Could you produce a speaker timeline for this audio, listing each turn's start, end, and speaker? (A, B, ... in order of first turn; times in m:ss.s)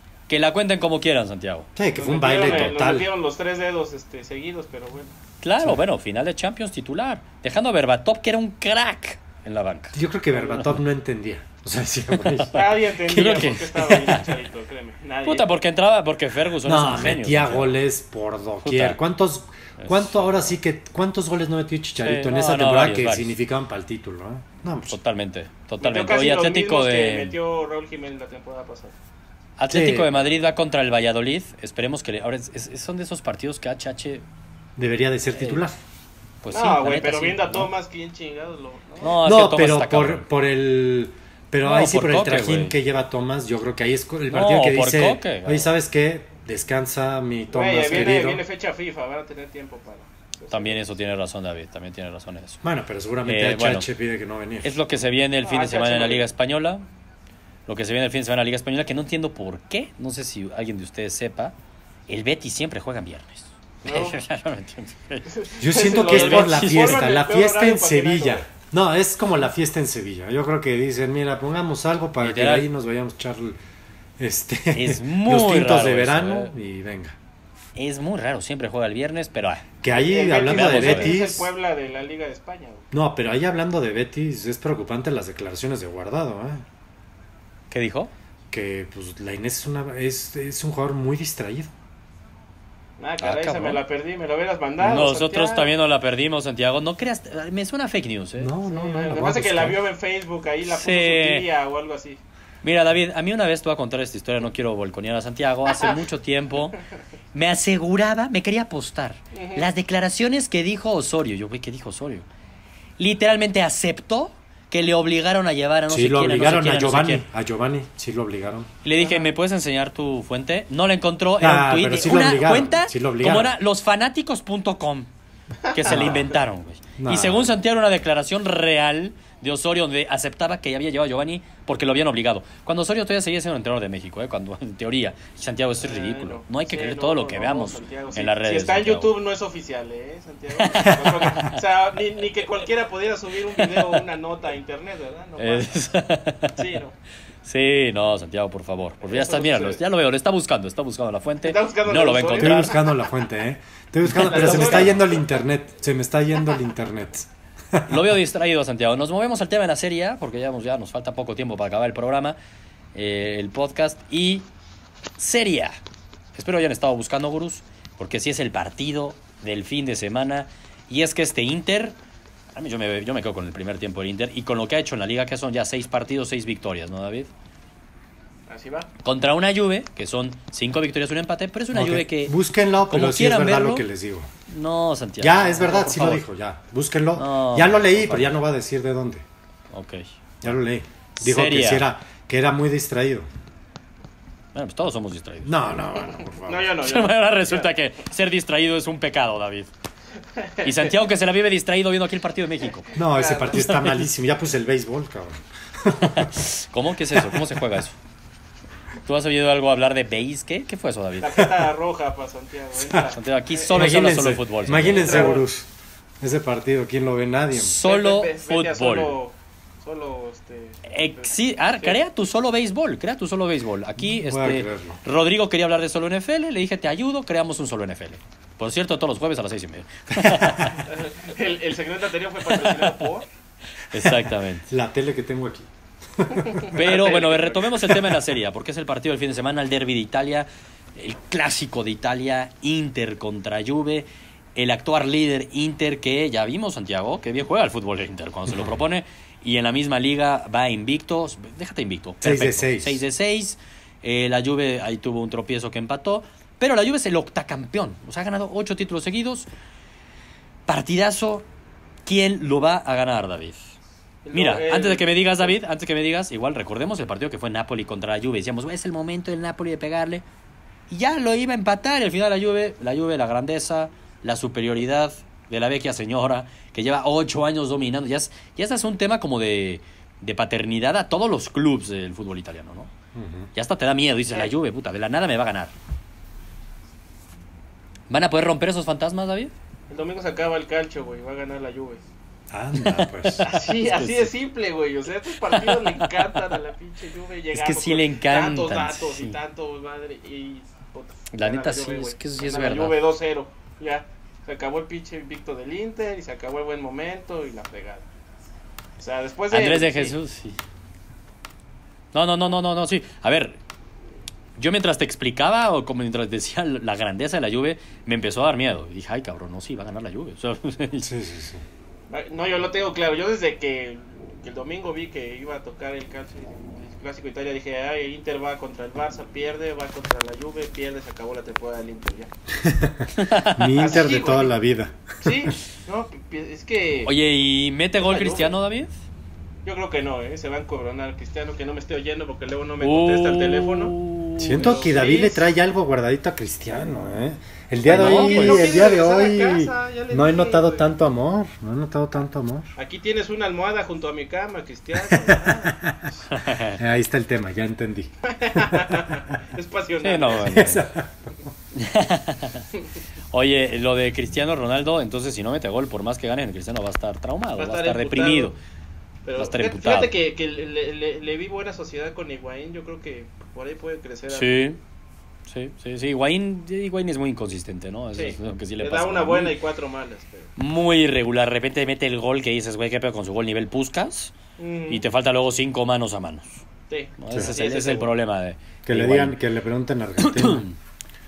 0:00.3-0:01.7 A
0:01.8-0:03.1 B
0:01.9-0:05.2 C
0:05.4-0:10.0 A
0:09.9-0:12.7 B
0:10.4-0:10.6 C
0:12.2-0:14.3 A
0:12.5-0:15.5 C
0:15.2-0:17.8 A
0:16.6-0:25.0 B
0:18.6-0:19.0 A
0:19.8-0:20.5 A
0:22.0-0:23.4 A
0:24.9-0:27.4 A
0:25.8-0:29.0 C
0:29.6-0:34.2 A
0:29.7-0:30.3 B
0:34.8-0:35.8 B
0:35.3-0:35.6 A
0:36.4-0:37.7 A
0:36.5-0:39.2 C
0:39.0-0:40.2 A
0:39.2-0:48.4 B
0:41.6-0:42.8 A
0:44.3-0:45.7 A
0:47.5-0:50.9 C
0:50.5-0:52.6 A
0:52.6-0:54.8 B
0:53.2-0:53.9 A
0:54.6-0:56.8 A
0:55.4-0:56.3 C
0:57.7-1:01.5 A
1:02.1-1:05.4 A
1:03.8-1:04.2 C
1:05.3-1:08.5 C
1:05.6-1:13.6 B
1:05.9-1:07.0 A
1:12.2-1:12.7 A
1:14.2-1:17.2 B
1:14.7-1:16.5 A
1:17.8-1:19.6 A
1:19.8-1:21.5 B
1:20.0-1:22.9 C
1:20.5-1:21.2 A
1:22.9-1:26.6 B
1:27.7-1:28.1 A
1:28.5-1:31.7 B
1:33.0-1:35.7 C
1:33.2-1:33.8 A
1:34.8-1:38.5 A
1:38.4-1:39.8 B
1:38.6-1:42.2 C
1:40.7-1:41.5 A
1:42.6-1:46.8 A
1:45.7-1:46.0 C
1:47.3-1:52.3 A
1:49.3-1:49.7 C
1:53.0-1:57.2 A
1:55.9-1:58.7 B
1:58.8-2:05.1 A
1:59.0-1:59.3 C
2:01.4-2:03.6 B
2:05.7-2:19.1 A
2:05.9-2:06.3 B
2:07.0-2:07.5 B
2:15.8-2:25.9 C
2:20.6-2:21.6 A
2:20.9-2:21.1 B
2:23.6-2:24.0 A
2:25.4-2:26.6 A
2:26.6-2:26.9 C
2:27.4-2:32.8 A
2:29.0-2:29.8 C
2:31.4-2:33.1 C
2:32.4-2:38.0 B
2:34.1-2:35.0 A
2:34.1-2:35.3 C
2:37.9-2:42.4 A
2:42.9-2:44.5 A
2:45.2-2:45.8 A
2:46.4-2:52.0 A
2:52.6-2:57.3 A
2:58.5-2:58.9 C
2:59.0-3:02.4 A
3:01.7-3:04.3 B
3:02.9-3:03.9 A
3:04.5-3:06.2 A
3:05.2-3:09.2 B
3:07.2-3:08.4 A
3:09.7-3:10.1 A
3:10.4-3:13.3 B
3:11.2-3:11.9 A
3:14.6-3:15.6 A
3:15.4-3:16.7 B
3:16.2-3:17.7 C
3:16.8-3:19.7 A
3:20.4-3:20.9 C
3:20.6-3:23.0 A
3:22.9-3:23.8 C
3:23.0-3:26.5 B
3:23.6-3:24.0 A
3:26.0-3:28.0 A
3:27.1-3:27.6 B
3:29.0-3:31.5 A
3:31.2-3:33.9 C
3:33.1-3:35.4 A
3:33.7-3:35.7 B
3:34.9-3:35.4 C
3:36.2-3:37.8 B
3:37.5-3:39.2 A
3:37.8-3:42.0 C
3:40.8-3:50.9 A
3:44.0-3:45.0 B
3:50.1-3:50.8 B
3:50.8-3:53.3 C
3:52.5-3:53.0 A
3:53.9-3:54.7 A
3:53.9-3:56.7 B
3:56.4-3:57.7 C
3:56.7-4:19.5 A
3:57.9-3:58.2 B
4:12.2-4:13.0 B
4:20.7-4:21.5 A
4:22.1-4:23.8 A
4:24.2-4:25.5 C
4:24.3-4:30.2 A
4:30.9-4:42.9 A
4:43.2-4:43.5 B
4:43.6-4:45.7 A
4:48.1-4:49.5 A
4:49.9-4:52.0 C
4:52.5-4:53.5 B
4:52.8-4:54.3 A
4:53.4-5:08.0 C
4:55.5-4:56.1 A
4:57.5-4:59.4 A
5:01.3-5:03.0 A
5:09.0-5:10.1 C
5:09.5-5:10.6 A
5:12.1-5:13.6 A
5:14.6-5:21.1 A
5:21.0-5:21.6 B
5:22.1-5:32.3 C
5:32.6-5:35.3 B
5:33.2-5:33.9 A
5:33.8-5:34.5 C
5:35.2-5:37.1 C
5:37.0-5:38.9 A
5:38.0-5:38.6 C
5:39.6-5:44.0 C
5:42.8-5:44.8 A
5:44.4-5:52.7 B
5:44.5-5:45.5 C
5:47.8-5:50.9 C
5:47.9-5:48.8 A
5:52.8-5:55.8 C
5:55.0-5:56.0 B
5:56.3-5:56.8 A
5:56.6-5:59.3 B
5:58.3-6:00.7 C
6:00.0-6:00.9 A
6:00.4-6:01.1 B
6:01.8-6:02.7 A
6:03.3-6:08.6 A
6:07.6-6:08.5 C
6:09.2-6:14.7 C
6:09.4-6:10.1 A
6:14.3-6:14.8 A
6:15.5-6:19.6 A
6:18.2-6:20.5 C
6:20.6-6:24.3 A
6:24.6-6:25.0 C
6:24.9-6:26.6 A
6:26.9-6:28.1 C
6:27.2-6:29.4 A
6:28.8-6:30.6 B
6:30.2-6:30.8 A